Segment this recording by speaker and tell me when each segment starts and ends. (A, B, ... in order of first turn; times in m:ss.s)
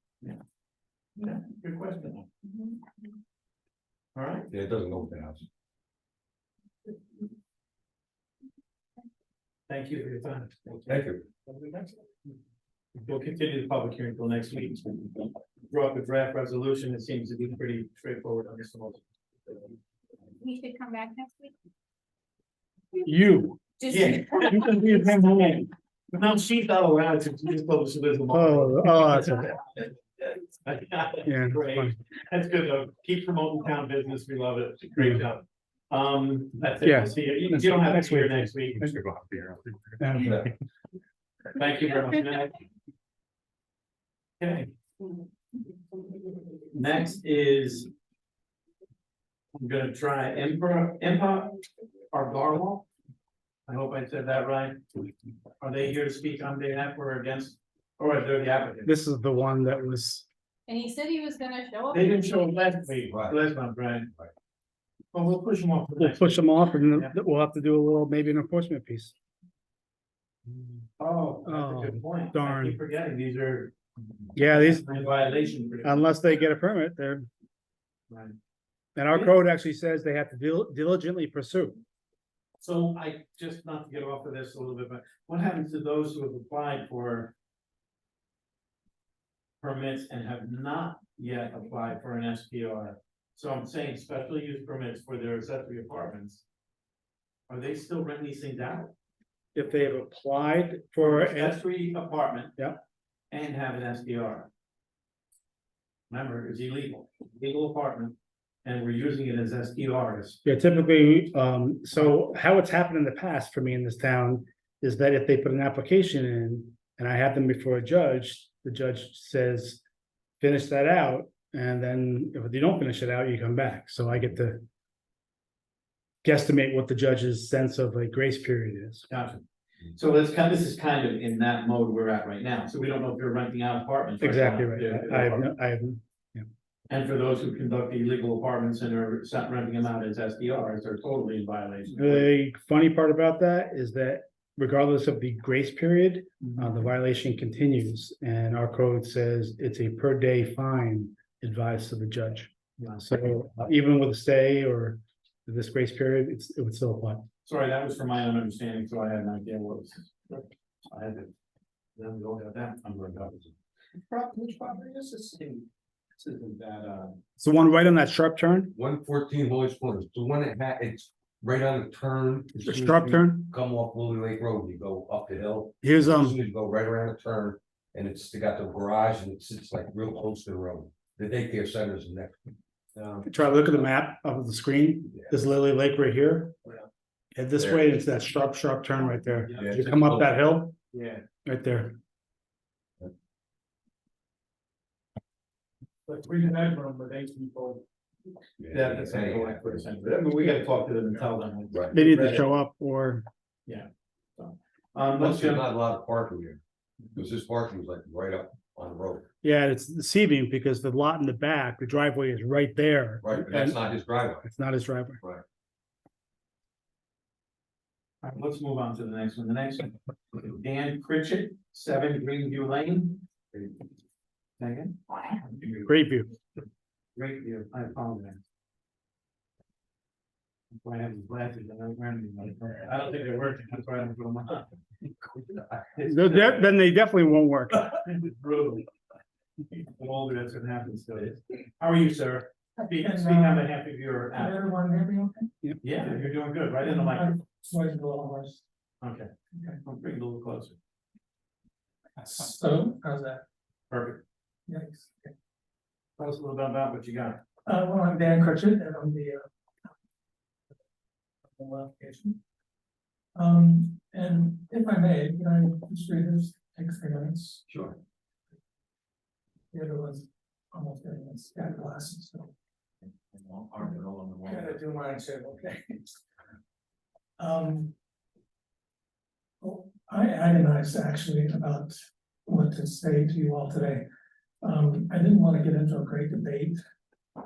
0:01.2-0:02.3 A
0:02.4-0:03.1 B
0:04.2-0:04.5 A
0:04.5-0:05.5 C
0:09.7-0:12.0 A
0:10.9-0:11.2 C
0:13.0-0:19.7 A
0:20.4-0:21.5 B
0:23.0-0:23.6 D
0:23.8-0:25.0 B
0:23.9-0:38.9 A
0:24.5-0:25.7 D
0:28.3-0:29.5 D
0:31.3-0:32.0 D
0:35.0-0:35.2 D
0:36.8-0:40.5 D
0:40.2-0:40.5 C
0:41.5-0:42.6 A
0:44.4-0:44.7 A
0:45.9-0:46.5 B
0:46.7-0:47.9 A
0:49.6-0:51.6 A
0:52.1-0:52.9 A
0:53.7-0:54.8 A
0:55.6-0:58.9 A
0:58.9-1:00.3 D
1:00.7-1:02.8 B
1:01.9-1:04.1 A
1:03.1-1:03.4 C
1:05.1-1:07.1 A
1:06.0-1:09.1 D
1:11.0-1:13.8 A
1:11.4-1:12.8 D
1:14.4-1:14.9 D
1:14.4-1:16.1 A
1:15.8-1:17.3 D
1:18.1-1:18.4 A
1:19.0-1:21.8 D
1:22.6-1:27.3 A
1:29.6-1:36.4 A
1:37.5-1:38.9 A
1:39.6-1:41.6 D
1:41.0-1:42.6 A
1:43.3-1:44.5 A
1:46.1-1:50.4 A
1:50.4-1:59.8 D
2:00.4-2:04.6 D
2:06.2-2:09.1 D
2:09.1-2:09.4 A
2:10.0-2:15.5 A
2:14.2-2:16.5 D
2:16.9-2:22.3 A
2:22.0-2:37.2 D
2:26.4-2:26.7 A
2:32.8-2:33.1 A
2:37.4-2:41.3 A
2:42.0-2:47.2 A
2:47.4-2:48.7 D
2:48.7-2:52.6 C
2:52.6-2:53.5 D
2:52.6-2:53.2 A
2:53.4-3:02.4 C
2:55.8-2:56.4 D
3:03.2-3:06.6 D
3:07.4-3:10.8 D
3:07.6-3:07.8 C
3:09.0-3:10.0 A
3:09.6-3:10.4 C
3:10.9-3:11.2 A
3:11.4-3:12.0 D
3:16.1-3:17.8 A
3:18.6-3:19.8 C
3:18.7-3:22.5 A
3:21.7-3:22.0 C
3:21.9-3:23.3 D
3:23.7-3:25.7 A
3:25.2-3:26.6 C
3:27.2-3:29.2 C
3:29.4-3:33.8 D
3:33.2-3:34.5 C
3:34.4-3:35.2 D
3:35.2-3:35.4 C
3:38.2-3:43.7 A
3:44.6-3:45.9 A
3:45.8-3:46.3 D
3:47.2-3:48.4 A
3:50.8-3:54.7 A
3:55.3-3:56.0 C
3:56.0-3:56.7 A
3:56.1-3:57.9 D
3:57.9-3:58.9 A
3:59.7-4:04.6 A
4:02.8-4:03.7 E
4:04.4-4:05.5 E
4:05.8-4:07.4 A
4:06.9-4:08.6 E
4:09.0-4:09.3 A
4:09.8-4:10.8 A
4:12.2-4:13.4 E
4:13.9-4:14.2 A
4:14.7-4:15.3 E
4:16.2-4:17.4 A
4:17.7-4:19.4 E
4:21.6-4:22.4 E
4:23.4-4:27.6 E
4:27.7-4:28.0 C
4:29.7-4:32.5 E
4:33.4-4:34.6 A
4:34.4-4:36.1 E
4:37.4-4:37.9 E
4:39.6-4:42.0 E
4:42.5-4:44.0 E
4:44.6-4:46.8 E